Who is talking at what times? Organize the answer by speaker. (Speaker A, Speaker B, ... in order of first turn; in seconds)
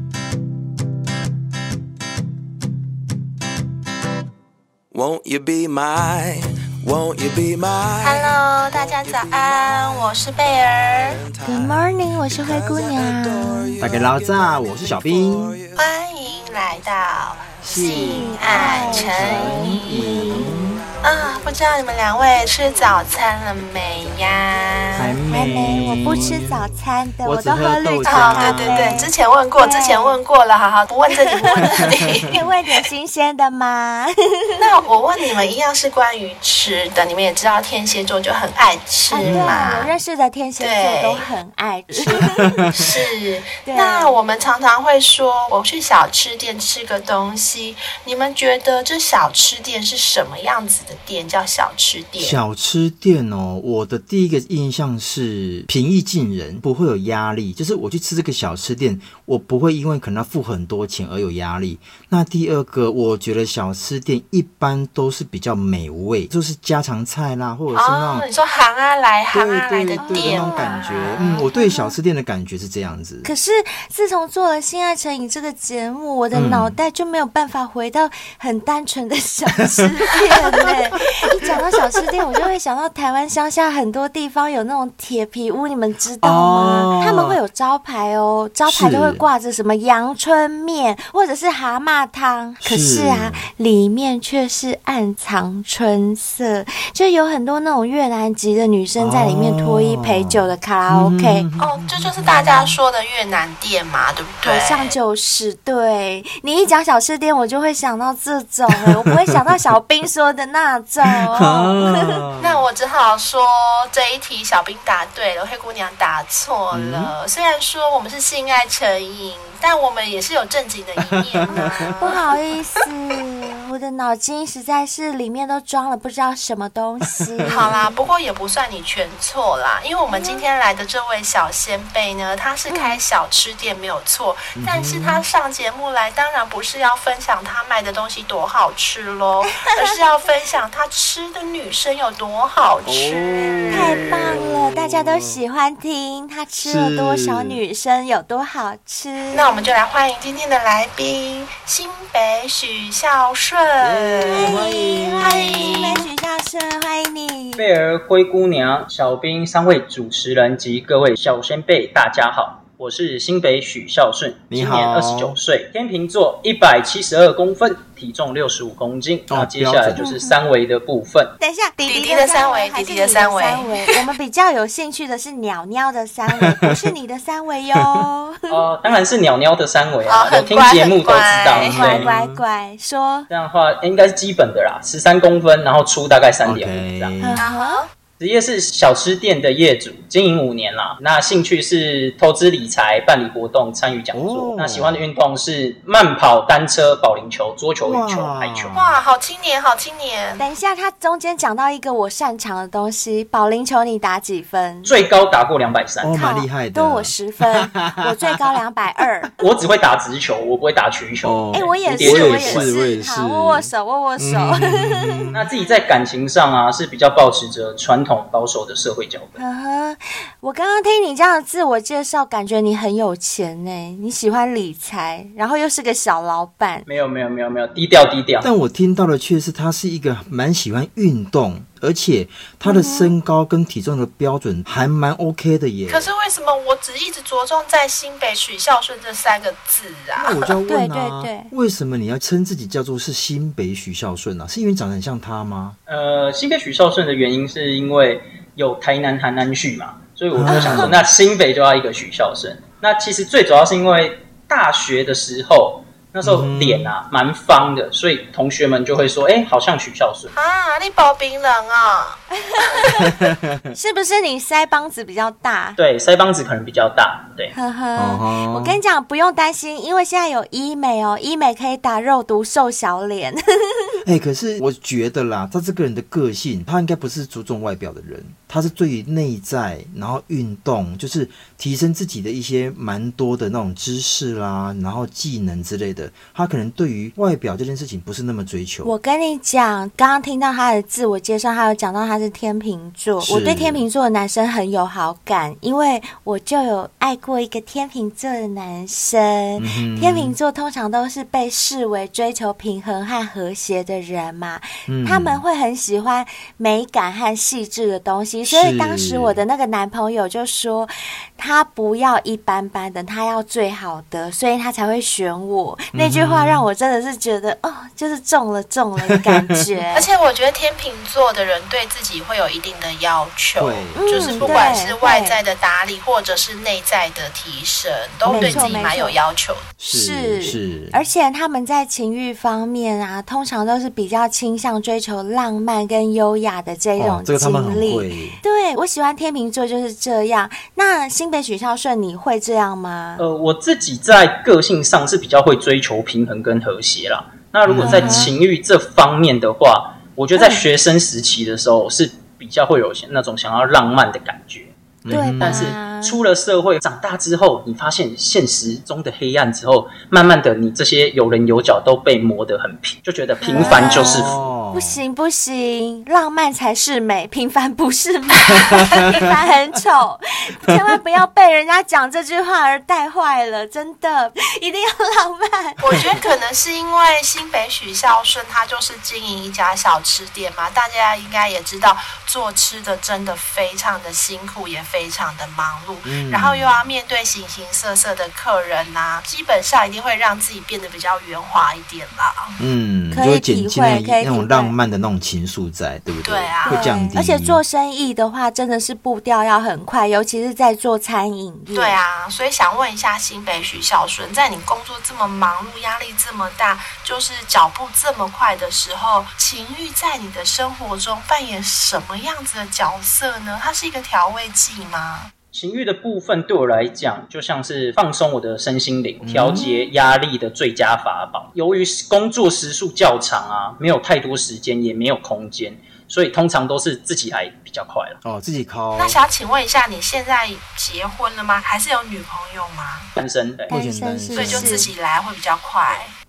Speaker A: 4.9-15.9, 17.5-19.2, 20.8-21.5, 22.2-23.1
Speaker B: 8.0-11.2, 15.8-20.4, 21.0-25.2, 28.0-32.8, 34.5-39.9, 40.6-41.3, 41.9-52.4, 67.7-71.4, 101.6-105.0, 112.4-122.3, 127.5-144.2, 149.3-156.1, 171.9-174.0, 180.1-181.7, 187.4-187.9, 198.7-200.4, 235.9-240.5, 260.3-262.2, 319.9-329.7, 375.8-392.6, 396.2-397.1, 401.7-415.3, 429.0-433.1, 434.3-436.1
Speaker C: 11.4-13.7, 17.9-20.5, 25.3-30.2, 31.1-34.6, 39.1-42.6, 43.6-44.2, 70.0-72.0, 73.2-101.5, 104.4-112.2, 121.5-127.8, 130.1-130.4, 132.7-133.0, 143.7-149.7, 154.2-157.7, 169.9-170.4, 171.4-178.6, 181.7-183.3, 187.2-187.8, 200.4-204.9, 206.1-209.3, 211.5-215.3, 219.4-226.9, 232.6-233.1, 240.7-241.5, 250.5-250.9, 262.3-263.1, 263.7-265.8, 267.5-274.0, 288.8-320.1, 323.9-325.4, 328.2-329.2, 329.9-343.2, 347.8-348.3, 350.4-350.6, 355.1-356.2, 363.4-376.0, 393.1-394.7, 396.6-402.0, 419.5-419.9, 433.7-434.9
Speaker D: 13.8-15.6, 17.6-20.8, 24.9-26.6, 27.2-28.9, 31.7-32.1, 39.2-39.7, 42.1-43.0, 52.2-68.3, 69.3-73.3, 76.3-76.7, 80.1-80.7, 81.4-82.0, 86.2-87.4, 88.7-89.2, 92.6-93.4, 99.0-102.8, 111.1-112.6, 116.7-117.1, 121.0-122.2, 127.2-127.9, 134.6-135.2, 142.8-145.4, 146.6-147.6, 153.8-155.9, 164.5-165.4, 169.3-170.0, 176.4-176.8, 181.6-182.4, 186.4-187.4, 194.1-195.0, 197.8-199.0, 206.0-208.4, 211.2-215.4, 228.4-236.1, 240.2-245.8, 250.3-251.1, 256.2-256.9, 262.9-263.7, 268.0-268.8, 274.0-288.9, 293.2-293.8, 299.6-300.4, 304.9-305.4, 308.4-309.4, 315.9-316.7, 319.1-319.5, 323.6-324.8, 328.2-328.9, 329.8-331.0, 337.0-338.4, 347.6-348.3, 355.0-355.7, 363.5-365.0, 368.7-369.1, 386.0-386.8, 392.6-397.6, 419.2-419.6, 428.2-429.2, 433.7-434.9
Speaker E: 157.6-171.3, 178.5-182.1, 183.3-187.1, 188.2-198.8, 204.8-206.1, 209.4-212.7, 215.3-219.4, 226.8-228.5, 245.9-260.3, 265.8-267.5, 343.2-354.7, 355.4-364.4, 415.5-428.2, 433.2-433.7